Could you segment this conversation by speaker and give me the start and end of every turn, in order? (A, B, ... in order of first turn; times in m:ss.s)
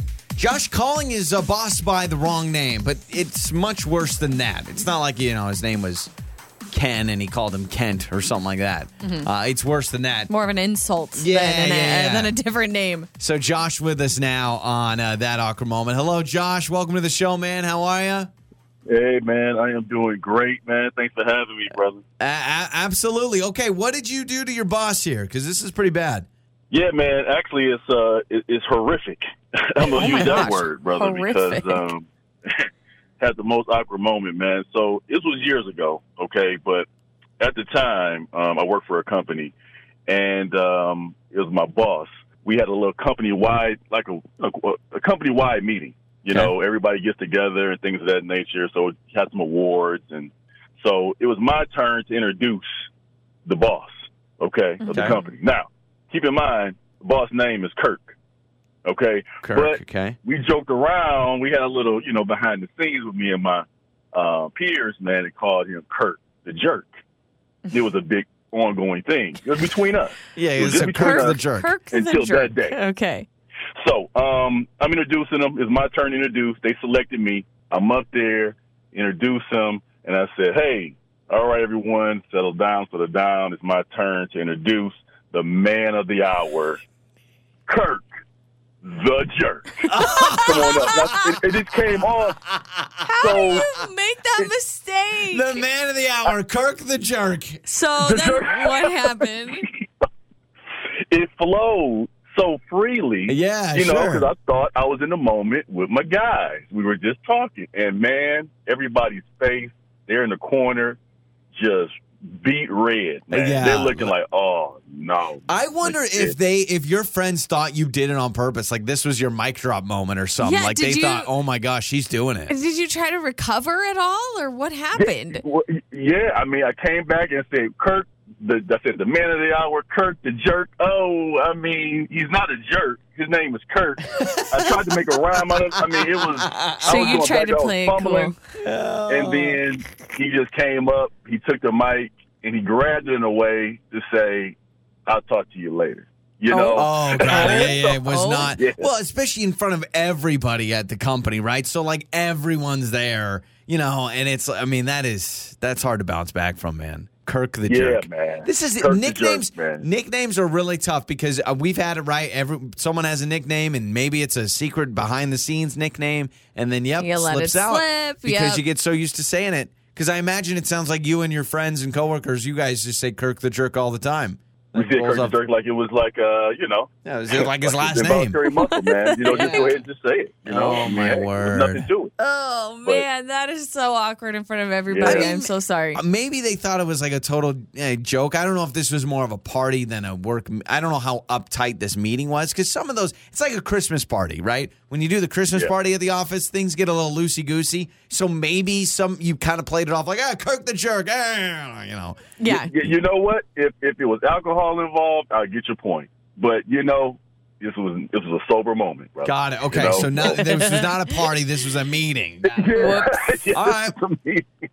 0:00.4-0:06.1 A
0:06.7-0:10.3 A
0:09.0-0:09.3 B
0:10.3-0:13.1 B
0:11.2-0:12.4 A
0:13.2-0:18.3 A
0:18.9-0:22.0 C
0:22.2-0:26.3 A
0:26.7-0:32.7 C
0:29.8-0:31.9 B
0:30.0-0:30.6 A
0:33.2-0:36.9 C
0:37.4-0:39.6 C
0:40.1-0:52.9 C
0:53.5-0:58.1 C
0:54.8-0:55.2 B
0:54.9-0:55.2 A
0:58.8-1:06.9 C
0:59.4-1:00.2 A
1:07.7-1:12.8 C
1:10.4-1:11.7 A
1:10.6-1:13.3 B
1:13.8-1:26.8 C
1:27.7-1:28.1 C
1:28.8-1:32.5 C
1:29.9-1:31.4 A
1:30.0-1:31.4 B
1:32.4-1:33.7 A
1:33.1-1:35.6 B
1:33.2-1:33.7 C
1:35.3-1:37.6 A
1:37.7-1:39.7 B
1:38.0-1:39.8 C
1:41.1-1:51.0 C
1:43.3-1:44.3 A
1:51.5-1:56.4 C
1:53.3-1:54.1 A
1:55.5-2:02.5 A
2:00.4-2:01.3 B
2:02.5-2:05.4 B
2:05.0-2:18.4 C
2:14.2-2:14.7 A
2:15.7-2:17.2 A
2:16.8-2:18.4 B
2:18.6-2:19.6 A
2:19.1-2:28.9 C
2:26.5-2:28.5 B
2:26.7-2:55.4 A
2:37.7-2:39.9 C
2:47.0-2:48.6 B
2:54.7-3:02.1 C
2:57.0-2:58.4 A
2:58.4-2:59.7 B
2:59.3-2:59.7 A
3:00.5-3:01.8 A
3:02.2-3:06.0 B
3:04.9-3:05.4 C
3:05.0-3:05.4 A
3:06.0-3:22.9 A
3:22.4-3:22.7 B
3:22.5-3:30.5 C
3:29.2-3:34.0 A
3:30.2-3:30.9 B
3:32.4-3:34.5 C
3:32.8-3:33.4 B